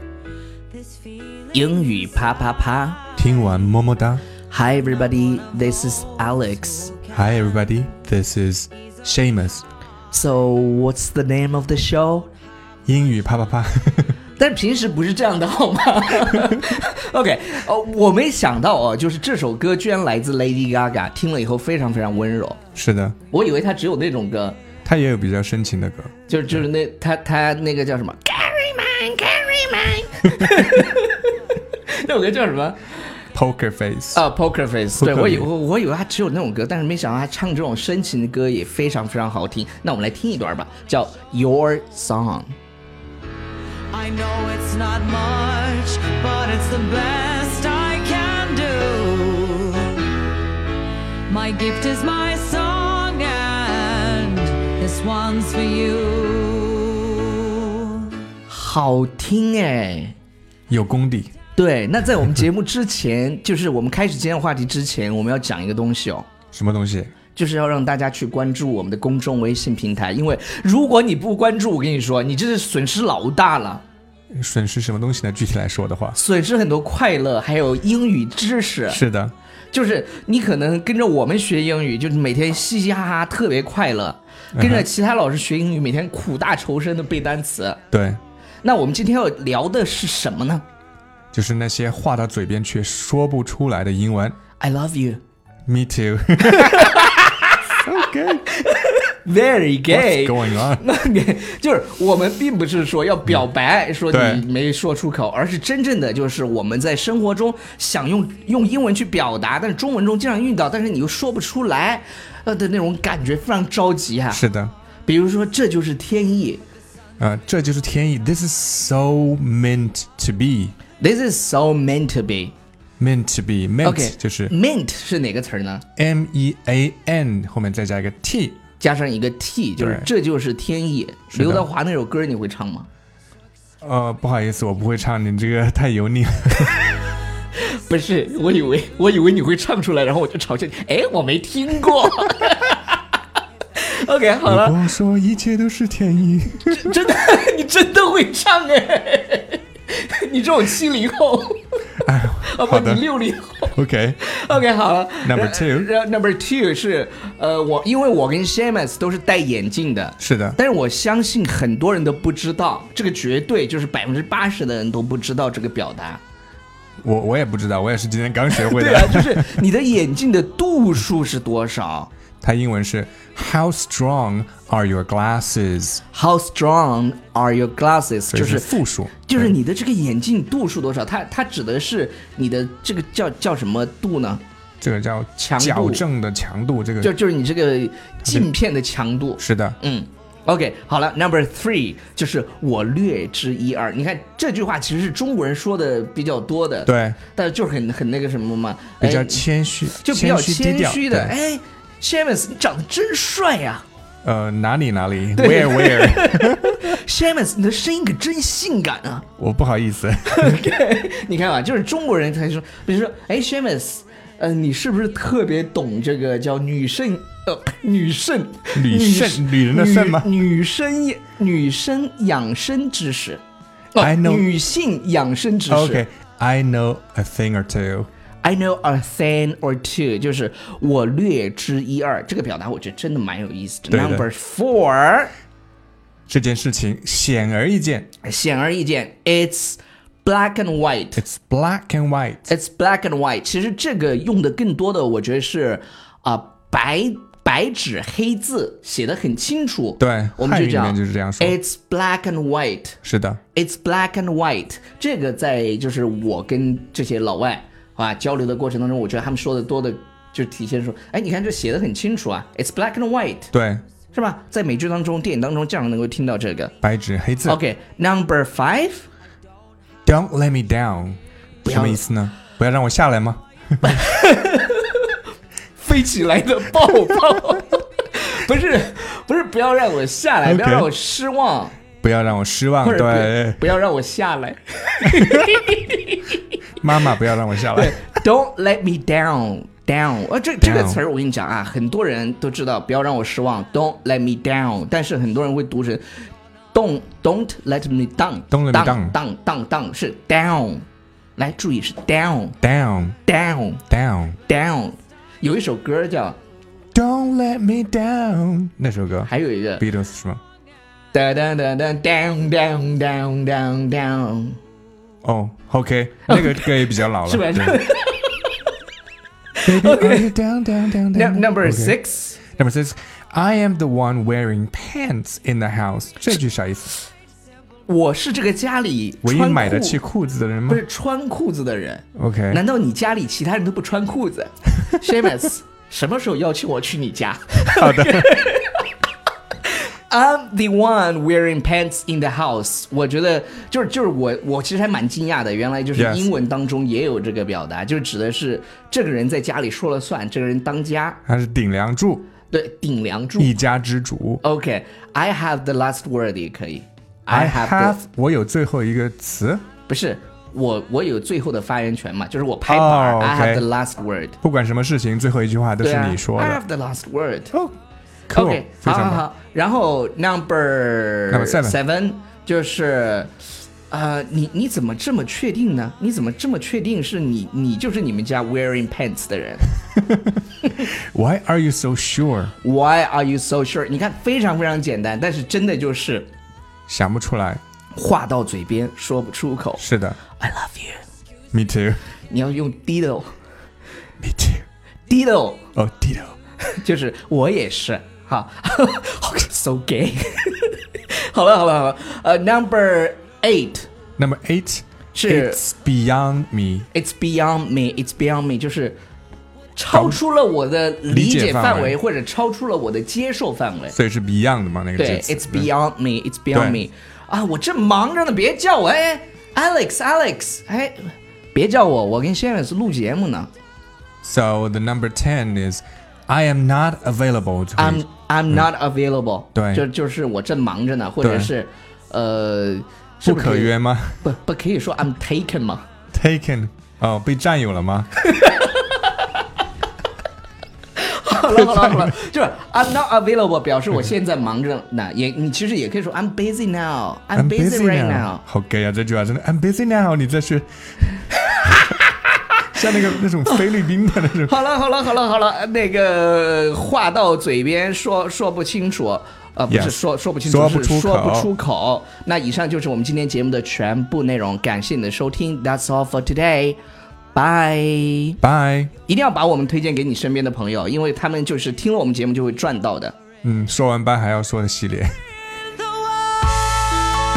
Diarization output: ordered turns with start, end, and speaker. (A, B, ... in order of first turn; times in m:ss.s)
0:00.8-0:01.5 A
0:01.5-0:03.0 B
0:03.2-0:04.2 C
0:04.5-0:06.9 B
0:07.1-0:09.6 C
0:10.1-0:12.3 B
0:12.8-0:14.1 C
0:14.4-0:22.6 B
0:22.7-0:23.2 C
0:23.3-0:24.6 B
0:24.8-0:26.1 C
0:26.3-0:31.3 B
0:30.4-0:30.7 C
0:31.9-0:32.8 B
0:33.3-0:34.2 C
0:34.1-0:42.5 B
0:35.0-0:35.5 C
0:43.9-0:50.2 A
0:51.3-0:58.2 A
0:58.5-1:00.1 B
1:00.7-1:01.3 C
1:01.6-1:06.3 B
1:06.5-1:07.1 C
1:07.3-1:13.8 B
1:14.3-1:16.2 C
1:16.1-1:19.0 B
1:18.9-1:19.3 C
1:19.7-1:27.8 B
1:24.5-1:24.9 C
1:27.9-1:28.2 C
1:28.6-1:30.6 B
1:31.3-1:34.4 C
1:34.6-1:35.2 B
1:35.7-1:37.0 C
1:36.5-1:37.7 B
1:37.8-1:38.4 C
1:38.5-1:54.4 B
1:39.9-1:40.8 C
1:44.1-1:44.4 C
1:54.3-1:54.7 C
1:55.0-1:56.6 B
1:57.2-2:00.7 C
2:01.0-2:02.5 B
2:03.0-2:04.5 C
2:03.8-2:05.8 B
2:06.0-2:08.6 C
2:08.8-2:12.9 B
2:09.8-2:10.1 C
2:11.3-2:11.7 C
2:13.8-2:16.7 C
2:17.8-2:23.0 B
2:23.8-2:24.8 B
2:24.4-2:26.9 C
2:26.7-2:31.6 B
2:32.0-2:33.0 C
2:32.4-2:46.2 B
2:33.7-2:34.2 C
2:35.2-2:35.9 C
2:40.2-2:40.6 C
2:47.0-2:49.5 C
2:48.5-2:52.1 B
2:52.4-2:56.0 C
2:56.1-3:04.4 B
2:58.3-2:59.5 C
3:04.8-3:07.1 C
3:05.4-3:06.0 B
3:07.0-3:23.8 B
3:09.4-3:09.8 C
3:16.8-3:17.2 C
3:19.0-3:21.3 C
3:24.2-3:27.0 C
3:25.3-3:29.2 B
3:29.4-3:30.6 C
3:30.3-3:43.4 B
3:38.7-3:40.3 C
3:43.9-3:46.0 B
3:44.0-3:44.5 C
3:45.7-3:48.1 C
3:48.4-3:55.3 B
3:53.9-3:54.2 C
3:56.3-3:58.1 C
3:58.2-4:01.2 B
4:01.2-4:02.5 C
4:02.5-4:13.0 B
4:10.0-4:11.6 C
4:13.0-4:13.4 C
4:13.5-4:23.5 B
4:23.5-4:23.8 C
4:24.1-4:26.7 B
4:26.8-4:27.6 C
4:27.4-4:29.0 B
4:30.0-4:34.0 C
4:31.6-4:32.0 B
4:33.8-4:35.1 B
4:35.8-4:41.7 B
4:40.4-4:40.9 C
4:42.0-4:43.7 C
4:42.8-4:46.4 B
4:46.8-4:48.0 C
4:47.7-4:56.0 B
4:50.6-4:51.0 C
4:56.7-5:00.8 B
4:58.5-4:59.1 C
5:01.4-5:02.6 B
5:02.6-5:03.2 C
5:03.2-5:03.8 B
5:03.9-5:04.4 C
5:04.5-5:06.4 B
5:06.9-5:10.4 C
5:09.2-5:09.8 B
5:11.1-5:14.6 B
5:15.2-5:17.8 C
5:16.3-5:18.5 B
5:19.6-5:20.3 B
5:19.6-5:22.0 C
5:21.1-5:22.4 B
5:22.5-5:26.9 C
5:27.9-5:30.0 B
5:29.2-5:30.8 C
5:30.7-5:38.8 B
5:32.1-5:32.6 C
5:37.6-5:38.4 C
5:39.6-5:51.2 B
5:46.0-5:46.3 C
5:51.3-5:52.3 C
5:52.5-5:53.5 B
5:53.4-5:54.4 C
5:54.4-5:58.0 B
5:57.3-5:59.6 C
5:59.9-6:04.4 B
6:02.6-6:03.6 C
6:04.4-6:06.6 C
6:05.8-6:07.5 B
6:08.3-6:09.2 C
6:08.3-6:19.7 B
6:11.3-6:11.8 C
6:20.1-6:22.5 C
6:22.6-6:26.3 B
6:26.9-6:27.6 C
6:27.9-6:31.0 B
6:29.8-6:30.2 C
6:31.5-6:32.0 C
6:32.3-6:33.3 B
6:34.2-6:34.6 C
6:35.1-6:35.6 B
6:35.7-6:36.3 C
6:36.7-6:43.9 B
6:44.2-6:46.9 C
6:45.1-6:45.6 B
6:46.9-6:49.0 B
6:49.8-6:53.9 B
6:49.9-6:50.2 C
6:51.1-6:52.0 C
6:53.9-6:55.7 C
6:55.0-7:03.5 B
6:56.5-6:56.8 C
7:04.2-7:08.6 C
7:07.8-7:15.8 B
7:09.5-7:09.8 C
7:11.2-7:11.5 C
7:13.2-7:14.2 C
7:16.1-7:18.1 C
7:18.2-7:19.3 B
7:21.0-7:28.4 B
7:21.4-7:22.1 C
7:27.3-7:30.7 C
7:31.3-7:33.6 B
7:32.7-7:34.6 C
7:34.4-7:46.8 B
7:39.7-7:41.5 C
7:47.3-7:48.4 B
7:48.4-7:48.9 C
7:49.1-7:53.2 B
7:53.4-7:55.2 C